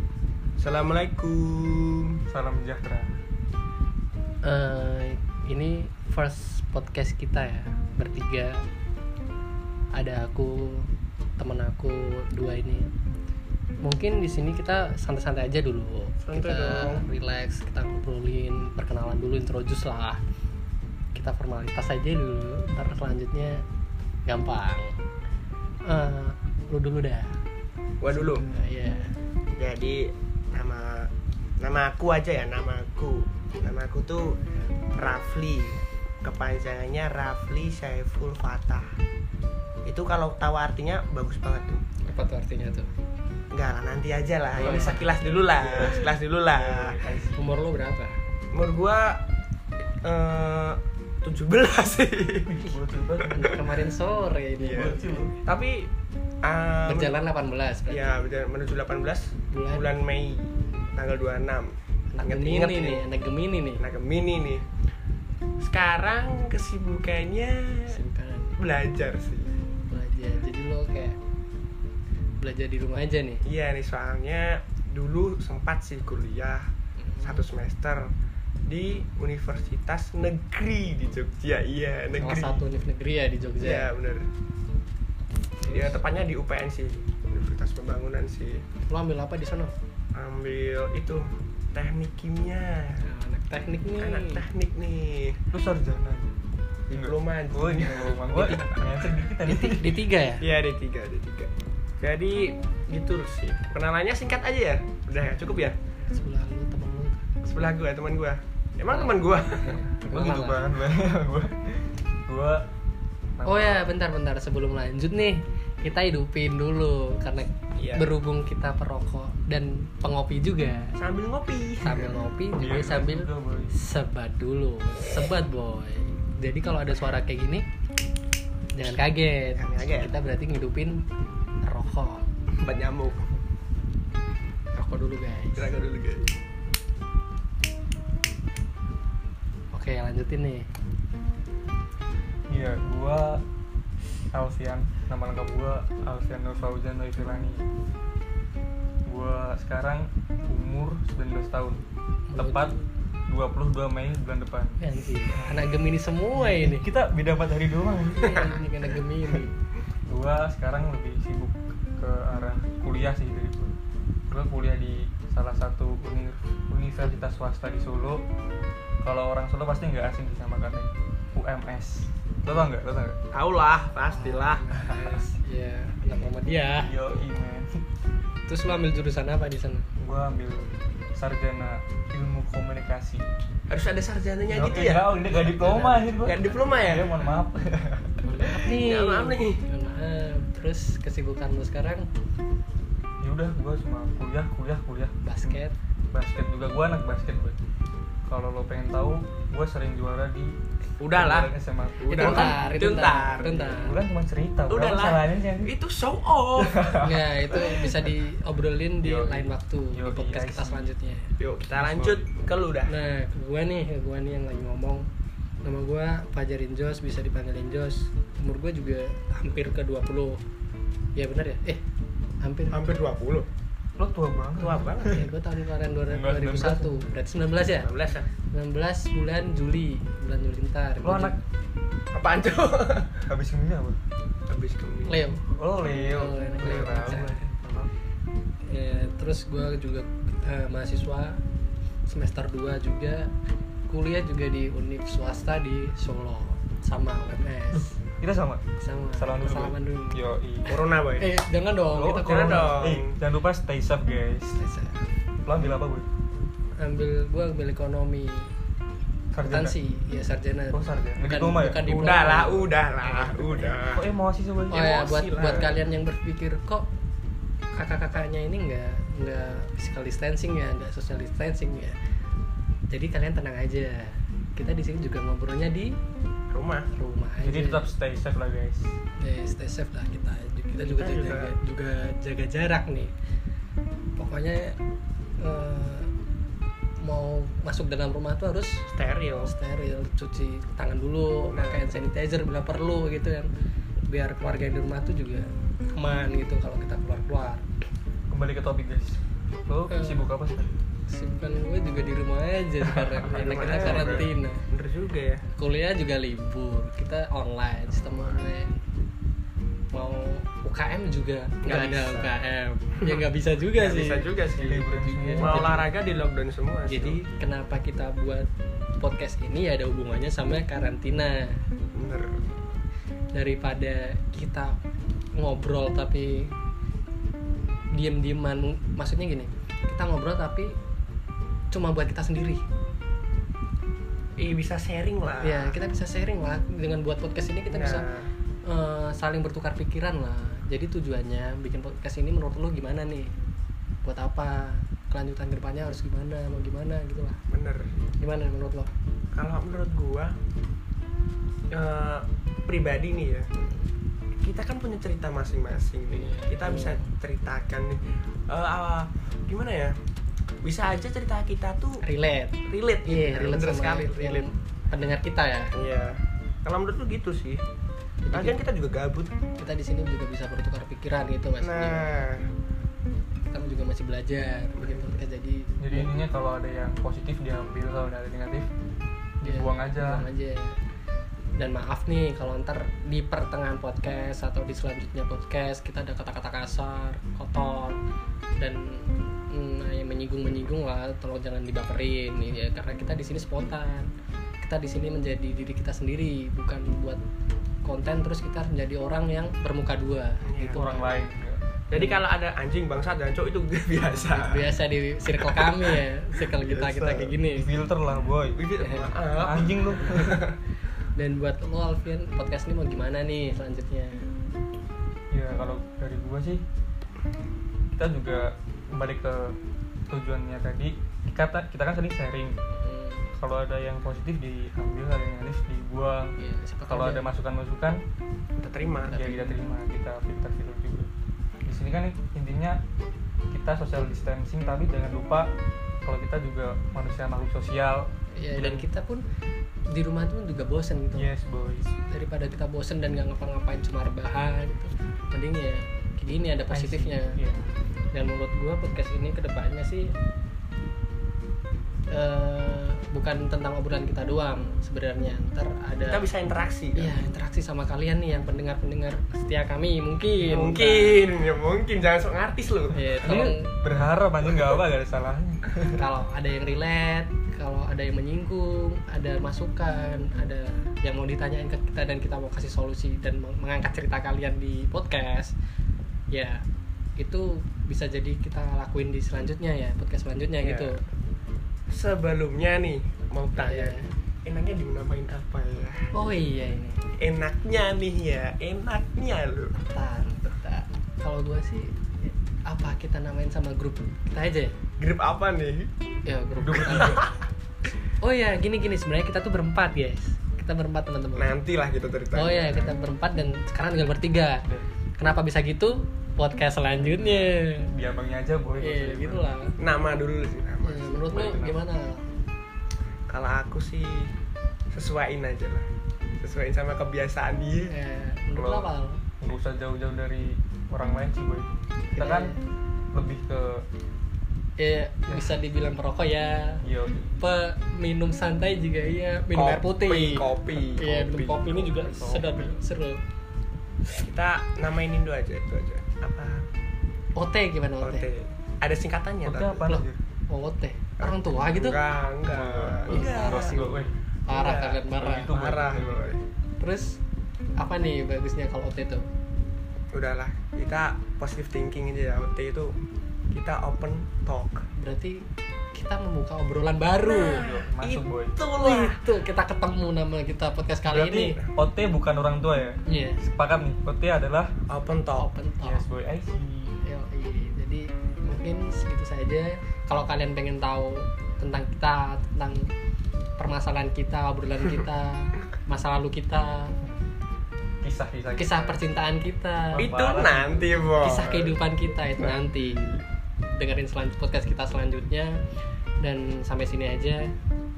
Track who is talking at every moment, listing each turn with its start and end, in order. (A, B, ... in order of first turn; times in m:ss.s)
0:00.6-0:02.2 A
0:02.3-0:03.2 B
0:04.4-0:08.6 C
0:09.9-0:12.9 C
0:13.8-0:20.2 C
0:16.2-0:17.0 A
0:21.1-0:23.6 C
0:24.2-0:25.0 C
0:25.8-0:27.4 C
0:28.0-0:28.4 A
0:28.1-0:29.2 C
0:29.6-0:34.4 A
0:34.9-0:38.9 A
0:39.8-0:41.8 A
0:42.0-0:42.9 C
0:43.5-0:47.1 A
0:44.6-0:45.2 C
0:44.6-0:47.5 B
0:47.3-0:48.2 C
0:48.5-0:49.2 A
0:50.0-0:52.6 A
0:52.4-0:53.6 B
0:53.2-0:53.6 A
0:53.3-0:55.3 C
0:54.6-0:55.9 A
0:54.7-0:55.4 B
0:56.4-0:57.1 A
0:56.9-0:58.1 C
0:57.9-1:03.1 A
0:59.5-0:59.9 C
1:02.1-1:03.8 C
1:03.8-1:04.7 A
1:05.6-1:08.0 A
1:07.9-1:08.6 C
1:08.6-1:09.5 A
1:09.9-1:11.2 C
1:12.4-1:13.4 C
1:13.4-1:16.7 A
1:17.0-1:17.4 C
1:17.2-1:18.1 A
1:18.6-1:22.6 A
1:22.2-1:23.9 C
1:23.6-1:24.3 A
1:25.6-1:28.6 A
1:28.9-1:29.7 C
1:30.1-1:33.1 A
1:33.0-1:34.4 C
1:34.0-1:35.4 A
1:35.5-1:36.3 B
1:36.9-1:38.7 A
1:36.9-1:40.0 B
1:38.2-1:38.8 C
1:39.4-1:40.4 C
1:40.4-1:45.8 A
1:46.0-1:47.2 C
1:47.4-1:49.8 A
1:48.9-1:50.6 C
1:50.0-1:52.7 B
1:53.4-1:53.9 B
1:53.4-2:00.9 C
1:57.8-1:58.1 A
2:01.0-2:02.2 A
2:01.8-2:07.6 C
2:02.6-2:03.7 B
2:08.7-2:11.0 C
2:09.6-2:10.1 A
2:11.6-2:12.2 C
2:12.5-2:13.3 A
2:14.7-2:15.7 C
2:15.5-2:16.3 A
2:19.7-2:20.7 C
2:22.5-2:23.4 B
2:24.3-2:27.6 B
2:29.0-2:32.7 B
2:32.3-2:32.8 C
2:33.3-2:34.8 B
2:34.8-2:36.9 C
2:36.3-2:38.6 B
2:38.2-2:39.5 C
2:40.0-2:43.8 B
2:44.3-2:48.2 B
2:49.0-2:53.2 B
2:53.3-2:54.7 A
2:54.1-2:56.9 C
2:56.8-2:57.8 B
2:58.5-2:59.9 C
3:00.0-3:03.2 B
3:03.7-3:05.1 A
3:04.5-3:08.5 B
3:05.3-3:06.1 C
3:06.2-3:07.1 A
3:08.2-3:12.1 C
3:08.5-3:09.6 A
3:13.2-3:15.6 B
3:15.2-3:15.7 C
3:16.1-3:17.6 B
3:18.2-3:20.5 B
3:21.0-3:23.7 A
3:21.1-3:22.7 B
3:22.1-3:24.0 C
3:23.4-3:25.7 B
3:24.7-3:26.8 A
3:26.6-3:27.9 B
3:27.0-3:31.3 C
3:29.0-3:30.9 B
3:31.4-3:32.9 A
3:31.7-3:32.2 B
3:32.9-3:35.0 C
3:35.6-3:40.4 C
3:41.2-3:41.8 C
3:42.4-3:42.9 C
3:42.7-3:43.5 A
3:44.0-3:45.3 B
3:44.6-3:45.2 A
3:45.0-3:47.9 C
3:46.1-3:47.0 B
3:47.8-3:48.3 A
3:48.5-3:51.4 C
3:51.0-3:51.4 B
3:52.1-3:53.3 A
3:53.3-3:54.0 B
3:54.5-3:55.3 A
3:55.1-3:57.4 C
3:55.3-3:57.9 B
3:58.6-4:01.4 C
4:02.1-4:03.3 C
4:03.9-4:08.0 C
4:08.2-4:08.6 B
4:08.8-4:10.2 C
4:09.2-4:10.7 B
4:10.6-4:11.3 A
4:10.7-4:12.8 C
4:11.9-4:14.6 B
4:12.2-4:13.2 A
4:14.6-4:15.1 C
4:15.4-4:16.1 B
4:16.8-4:18.5 C
4:19.3-4:19.7 B
4:19.4-4:23.8 C
4:20.7-4:21.9 B
4:21.8-4:24.1 A
4:23.8-4:25.2 B
4:24.7-4:26.9 C
4:24.8-4:25.8 A
4:27.7-4:32.0 C
4:32.9-4:36.0 C
4:36.5-4:36.9 A
4:36.9-4:37.9 C
4:37.4-4:38.9 B
4:39.2-4:43.1 C
4:40.8-4:41.5 A
4:44.2-4:44.8 C
4:45.4-4:46.1 C
4:47.0-4:48.9 C
4:48.9-4:49.5 A
4:49.4-4:53.5 C
4:51.5-4:51.8 A
4:54.0-4:57.6 C
4:58.3-5:00.7 B
4:59.9-5:00.3 C
5:01.1-5:04.6 C
5:03.3-5:04.3 B
5:03.3-5:05.4 A
5:05.5-5:08.8 C
5:09.9-5:15.8 C
5:11.6-5:12.3 A
5:13.7-5:14.8 A
5:14.6-5:15.9 B
5:15.4-5:17.2 A
5:16.8-5:18.5 C
5:19.0-5:21.6 C
5:21.9-5:22.4 A
5:23.3-5:24.8 C
5:25.3-5:26.6 C
5:27.9-5:30.8 C
5:31.7-5:32.6 C
5:34.4-5:35.7 A
5:35.4-5:38.0 C
5:37.7-5:38.3 A
5:38.6-5:43.3 C
5:44.0-5:47.4 C
5:47.5-5:48.0 A
5:48.2-5:48.9 C
5:49.3-5:50.4 A
5:51.7-5:53.5 A
5:54.4-6:00.0 A
5:56.1-5:57.1 C
6:00.6-6:02.0 A
6:02.0-6:05.7 C
6:02.6-6:04.4 A
6:05.7-6:07.6 A
6:08.2-6:08.6 C
6:08.3-6:09.3 A
6:09.6-6:12.2 C
6:11.6-6:12.5 A
6:13.5-6:16.1 C
6:14.8-6:15.1 A
6:15.8-6:18.7 B
6:19.4-6:20.2 B
6:19.4-6:20.8 C
6:21.6-6:28.0 C
6:28.6-6:34.1 C
6:34.6-6:37.2 C
6:37.8-6:41.1 C
6:40.4-6:41.1 A
6:40.7-6:41.6 B
6:41.9-6:44.7 A
6:44.3-6:47.7 C
6:45.4-6:47.3 A
6:47.5-6:48.6 B
6:48.5-6:50.6 A
6:48.8-6:49.1 C
6:49.4-6:50.4 B
6:51.1-6:54.3 C
6:55.3-6:56.6 B
6:57.9-6:59.6 B
7:00.1-7:02.6 B
7:02.8-7:03.3 C
7:03.3-7:06.3 B
7:06.4-7:07.3 C
7:06.9-7:08.0 B
7:08.6-7:09.2 A
7:09.1-7:09.6 C
7:09.1-7:11.1 B
7:11.6-7:12.8 B
7:13.5-7:18.8 B
7:18.3-7:19.2 C
7:19.9-7:21.3 C
7:21.1-7:21.9 B
7:22.0-7:27.4 C
7:26.7-7:27.7 B
7:28.1-7:30.1 C
7:32.1-7:36.3 C
7:36.1-7:37.1 A
7:36.9-7:41.2 C
7:40.4-7:43.5 A
7:42.9-7:43.7 C
7:43.2-7:46.0 B
7:45.9-7:55.5 C
7:56.3-7:56.6 C
7:57.2-8:01.0 C
8:00.6-8:01.0 A
8:01.9-8:06.1 A
8:03.5-8:04.1 C
8:06.1-8:07.1 C
8:07.2-8:09.8 A
8:09.7-8:14.7 C
8:15.0-8:15.9 A
8:16.2-8:17.2 C
8:16.6-8:17.3 B
8:16.8-8:17.3 A
8:18.2-8:21.5 C
8:21.4-8:22.9 A
8:22.3-8:24.6 C
8:25.2-8:27.9 C
8:27.0-8:29.4 B
8:28.8-8:29.7 C
8:29.8-8:31.4 A
8:30.8-8:32.2 C
8:31.3-8:31.8 B
8:33.3-8:34.3 A
8:34.9-8:35.9 A
8:36.4-8:37.9 A
8:37.9-8:39.2 C
8:38.5-8:42.5 B
8:42.1-8:42.6 C
8:43.1-8:43.8 B
8:44.8-8:46.9 C
8:46.8-8:47.4 B
8:47.4-8:53.2 C
8:49.5-8:51.9 A
8:51.8-8:52.7 B
8:54.2-8:56.6 A
8:57.4-8:58.2 C
8:58.0-8:59.9 A
8:59.4-9:00.2 B
8:59.9-9:02.0 C
9:01.2-9:03.8 A
9:02.5-9:04.1 B
9:03.0-9:05.5 C
9:04.5-9:06.4 A
9:05.1-9:06.4 B
9:06.8-9:07.2 C
9:07.8-9:09.2 C
9:10.1-9:12.9 A
9:13.5-9:14.8 A
9:15.0-9:17.6 C
9:17.2-9:19.2 A
9:17.5-9:18.6 B
9:18.8-9:21.6 C
9:21.0-9:24.8 B
9:23.0-9:23.4 C
9:24.9-9:25.5 A
9:25.3-9:26.0 C
9:25.8-9:27.0 B
9:27.0-9:32.9 C
9:33.6-9:37.0 C
9:38.0-9:39.0 B
9:38.6-9:40.1 C
9:39.9-9:40.9 B
9:40.0-9:41.8 A
9:41.2-9:43.2 C
9:42.4-9:43.0 A
9:43.7-9:45.6 C
9:46.2-9:47.5 C